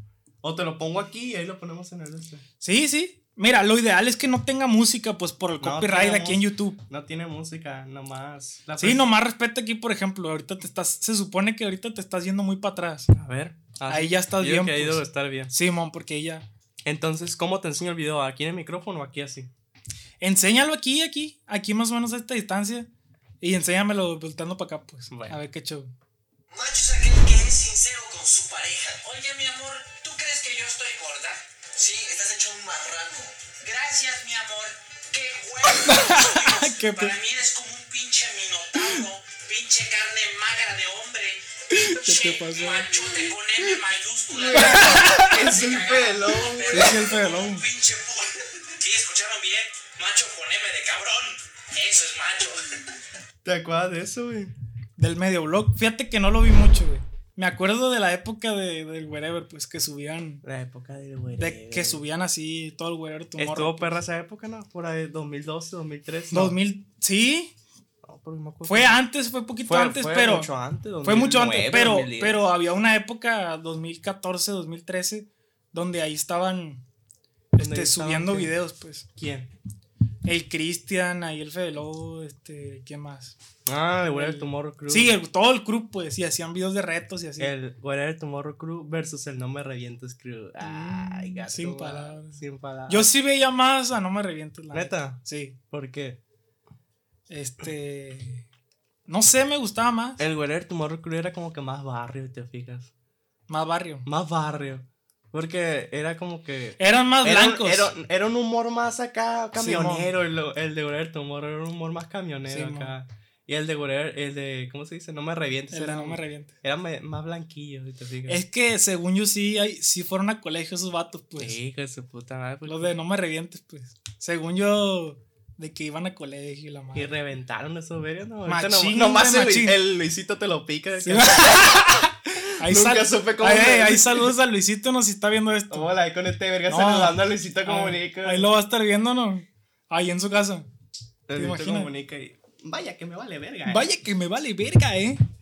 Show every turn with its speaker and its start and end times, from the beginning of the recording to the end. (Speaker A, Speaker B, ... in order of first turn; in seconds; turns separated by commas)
Speaker A: 0.4-2.4, Speaker B: 2.6-6.8, Speaker A: 5.6-9.1, Speaker B: 8.8-13.1, Speaker A: 13.1-15.5, Speaker B: 13.9-16.5, Speaker A: 16.9-19.5, Speaker B: 20.2-22.9, Speaker B: 23.4-25.9, Speaker A: 25.1-25.4, Speaker C: 26.5-52.8, Speaker B: 35.7-37.1, Speaker B: 41.7-42.9, Speaker A: 44.3-47.0, Speaker B: 44.5-45.4, Speaker B: 46.7-47.6, Speaker A: 53.5-54.5, Speaker B: 55.0-60.4, Speaker A: 60.4-62.0, Speaker B: 61.4-64.0, Speaker A: 63.4-66.6, Speaker B: 66.3-67.5, Speaker A: 68.0-69.0, Speaker B: 68.7-70.5, Speaker A: 69.7-72.4, Speaker B: 71.0-76.8, Speaker A: 77.6-78.5, Speaker B: 77.6-79.1, Speaker A: 79.2-79.5, Speaker B: 80.2-83.3, Speaker A: 83.7-85.2, Speaker B: 84.0-87.5, Speaker A: 87.4-93.1, Speaker B: 90.6-95.6, Speaker A: 94.7-96.2, Speaker B: 97.3-98.5, Speaker B: 99.1-100.2, Speaker A: 100.2-102.9, Speaker B: 103.5-104.1, Speaker A: 104.0-118.4, Speaker B: 106.8-107.9, Speaker B: 109.6-110.1, Speaker B: 112.5-112.9, Speaker B: 115.7-116.5, Speaker B: 118.3-121.6, Speaker A: 121.4-122.9, Speaker B: 122.7-127.1, Speaker A: 126.9-132.1, Speaker B: 128.5-129.8, Speaker B: 131.0-135.9, Speaker A: 132.6-134.3, Speaker A: 135.7-138.5, Speaker B: 136.7-140.7, Speaker A: 141.3-143.8, Speaker B: 141.3-141.9, Speaker B: 143.7-145.2